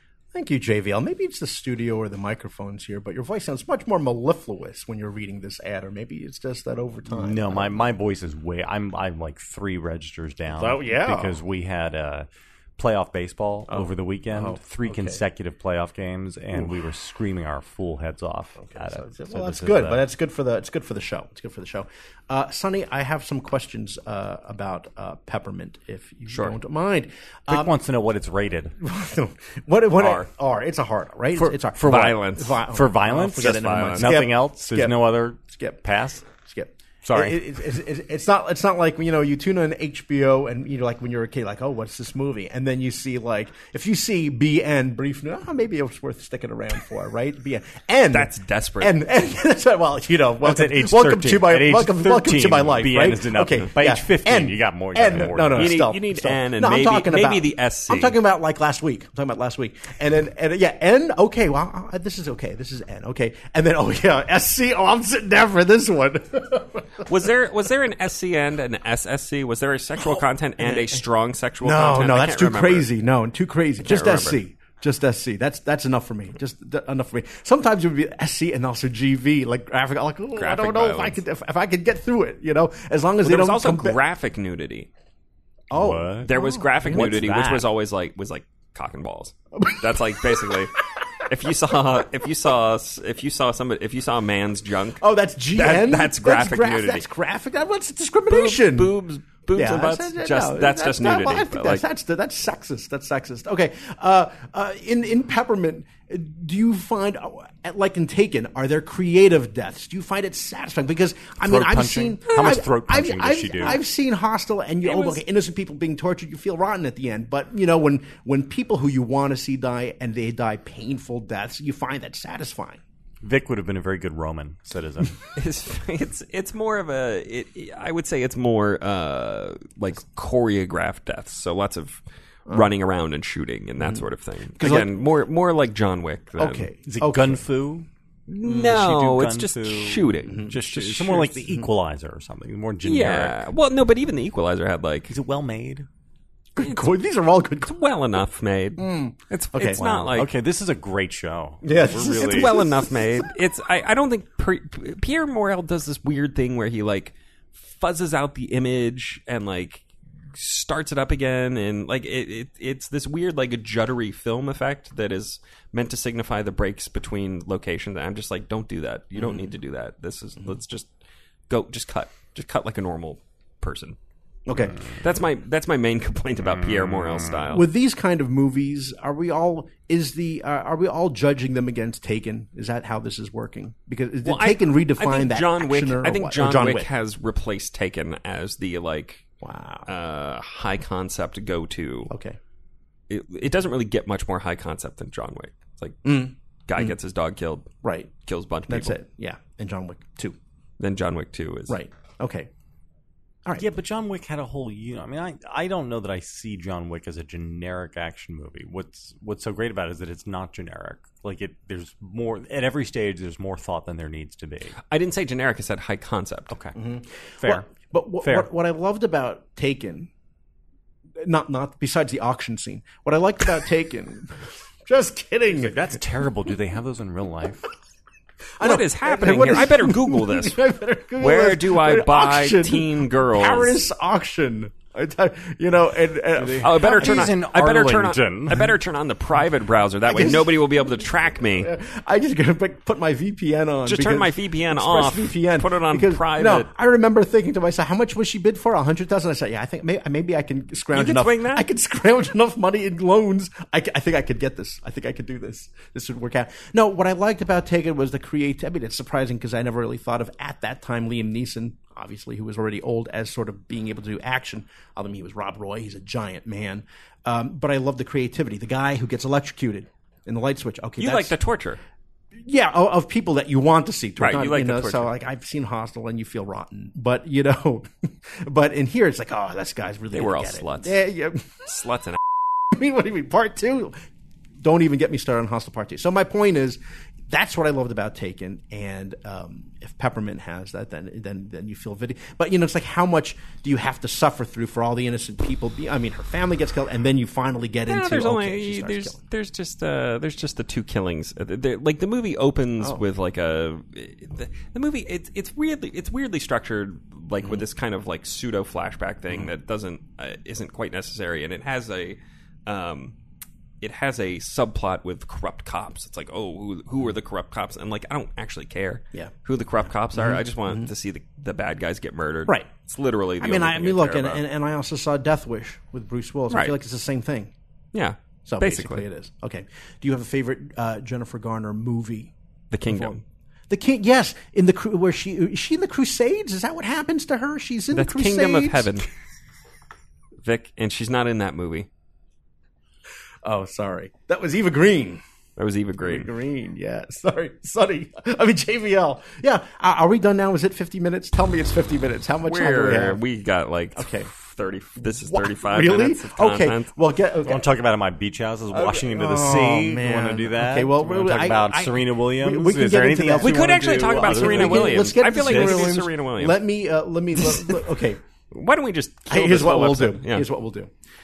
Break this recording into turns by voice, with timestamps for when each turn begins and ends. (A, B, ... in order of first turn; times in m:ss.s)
0:00.3-0:07.8 A
0:07.1-0:20.0 B
0:10.5-0:11.4 A
0:13.7-0:15.2 A
0:18.6-0:27.7 A
0:27.5-0:28.8 B
0:28.8-0:35.8 A
0:30.0-0:30.3 C
0:31.3-0:36.3 B
0:31.8-0:32.6 C
0:33.4-0:34.2 C
0:36.3-1:07.1 A
0:37.0-0:37.4 B
0:48.1-0:49.0 C
0:50.4-0:55.8 B
0:55.5-0:58.2 C
1:07.0-1:12.9 C
1:10.6-1:11.0 A
1:11.6-1:24.0 A
1:13.8-1:14.4 C
1:20.4-1:21.2 C
1:23.2-1:24.9 C
1:25.7-1:27.1 A
1:25.7-1:27.7 B
1:26.2-1:35.0 C
1:29.6-1:30.5 A
1:35.0-1:39.0 A
1:35.6-1:37.0 C
1:38.3-1:41.8 C
1:39.5-2:02.8 A
1:51.4-1:53.8 B
1:54.8-1:55.2 C
2:03.2-2:05.2 B
2:05.4-2:16.7 C
2:13.8-2:14.0 A
2:14.6-2:14.9 A
2:16.4-2:17.4 A
2:16.9-2:17.9 B
2:18.3-2:21.4 C
2:18.4-2:23.4 B
2:20.3-2:20.6 A
2:22.8-2:25.1 C
2:25.1-2:25.9 B
2:26.6-2:27.7 A
2:26.6-2:26.9 C
2:27.6-2:30.3 C
2:28.8-2:29.9 A
2:29.8-2:32.6 B
2:31.6-2:33.2 A
2:32.1-2:50.9 C
2:49.2-2:49.5 A
2:51.5-2:54.0 C
2:54.5-2:55.0 A
2:55.0-2:57.7 C
2:56.6-2:57.4 B
2:57.5-3:06.9 A
3:04.2-3:09.2 C
3:09.4-3:09.9 A
3:09.9-3:12.1 C
3:12.1-3:12.4 A
3:13.1-3:16.1 C
3:16.0-3:16.9 A
3:16.7-3:17.7 C
3:17.8-3:18.1 A
3:18.2-3:19.0 C
3:18.7-3:20.4 A
3:20.8-3:21.8 C
3:21.7-3:22.5 A
3:23.6-3:34.8 B
3:34.9-3:36.6 C
3:36.5-3:36.8 B
3:36.8-3:40.1 A
3:37.4-3:37.7 B
3:38.2-3:38.5 B
3:41.2-3:46.0 A
3:45.6-3:47.7 B
3:48.6-3:57.3 A
3:48.6-3:50.6 C
3:51.2-3:53.8 C
3:56.4-3:58.7 B
3:56.6-4:01.7 C
4:00.1-4:00.7 A
4:01.6-4:31.4 A
4:03.9-4:06.7 C
4:10.9-4:11.7 C
4:31.0-4:31.8 C
4:32.4-4:41.6 A
4:34.2-4:35.1 C
4:40.1-4:41.0 C
4:41.7-4:42.2 C
4:42.7-4:44.0 A
4:44.6-4:59.2 A
4:57.9-5:13.2 C
5:13.8-5:24.4 C
5:20.1-5:20.9 A
5:23.4-5:27.5 A
5:27.9-5:29.0 C
5:28.5-5:32.3 A
5:32.7-5:33.2 C
5:32.9-5:33.2 A
5:33.7-5:38.9 A
5:37.9-5:39.1 C
5:40.4-5:41.9 C
5:43.4-5:45.2 A
5:45.6-5:46.3 C
5:46.0-5:53.2 A
5:52.5-5:56.9 C
5:54.0-5:54.3 A
5:55.2-5:57.6 A
5:57.4-6:05.9 B
5:58.7-6:08.2 A
6:03.4-6:06.6 C
6:07.4-6:07.8 C
6:08.5-6:10.5 C
6:09.3-6:10.9 A